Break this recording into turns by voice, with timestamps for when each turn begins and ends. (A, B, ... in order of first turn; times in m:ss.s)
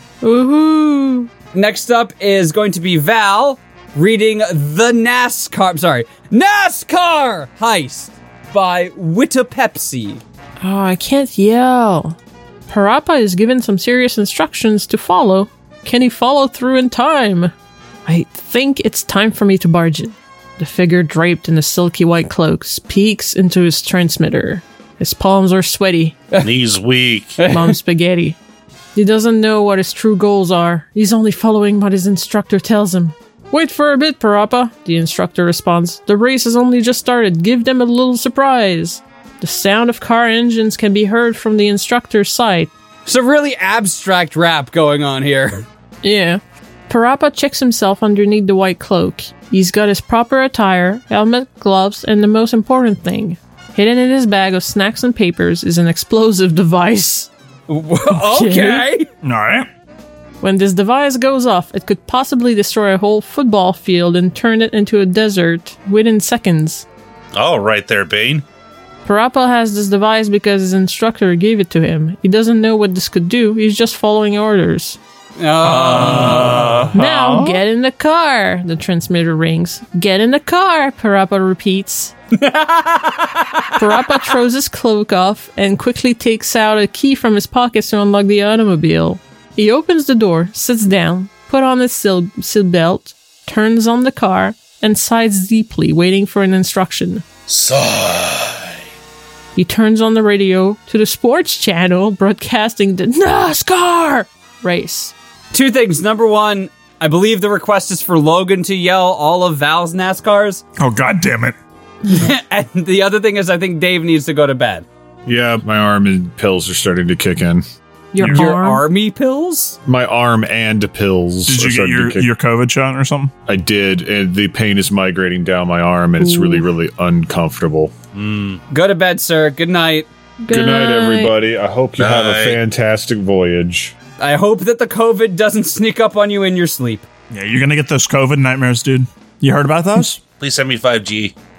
0:00.2-0:01.3 A
0:01.5-0:10.2 B
0:10.6-0:12.2 A
0:12.7-0:17.5 A
0:18.1-0:26.2 A
0:26.4-0:27.4 C
0:27.4-0:27.8 B
0:27.4-0:28.4 A
0:29.0-0:42.7 A
0:43.1-0:45.6 B
0:46.0-0:57.3 A
0:57.7-0:59.1 B
0:58.1-0:58.9 A
0:59.2-0:59.7 D
1:00.4-1:06.9 A
1:07.4-1:08.4 C
1:09.0-1:15.0 A
1:15.4-1:16.9 B
1:15.6-1:17.6 D
1:16.9-1:22.1 A
1:22.4-1:24.3 B
1:23.8-1:37.2 A
1:37.5-1:38.7 C
1:39.6-1:45.1 A
1:45.5-1:50.6 B
1:50.8-1:51.6 D
1:52.1-1:54.9 B
1:55.3-1:57.6 E
1:58.1-1:58.8 A
1:58.2-1:58.5 D
1:58.2-1:59.8 B
1:59.9-2:02.3 E
2:01.5-2:03.3 D
2:03.5-2:07.9 E
2:06.2-2:06.6 A
2:08.1-2:08.6 C
2:08.7-2:10.1 B
2:10.4-2:11.3 A
2:10.5-2:14.0 E
2:12.0-2:12.6 C
2:14.2-2:17.1 B
2:17.3-2:20.2 D
2:20.4-2:21.3 C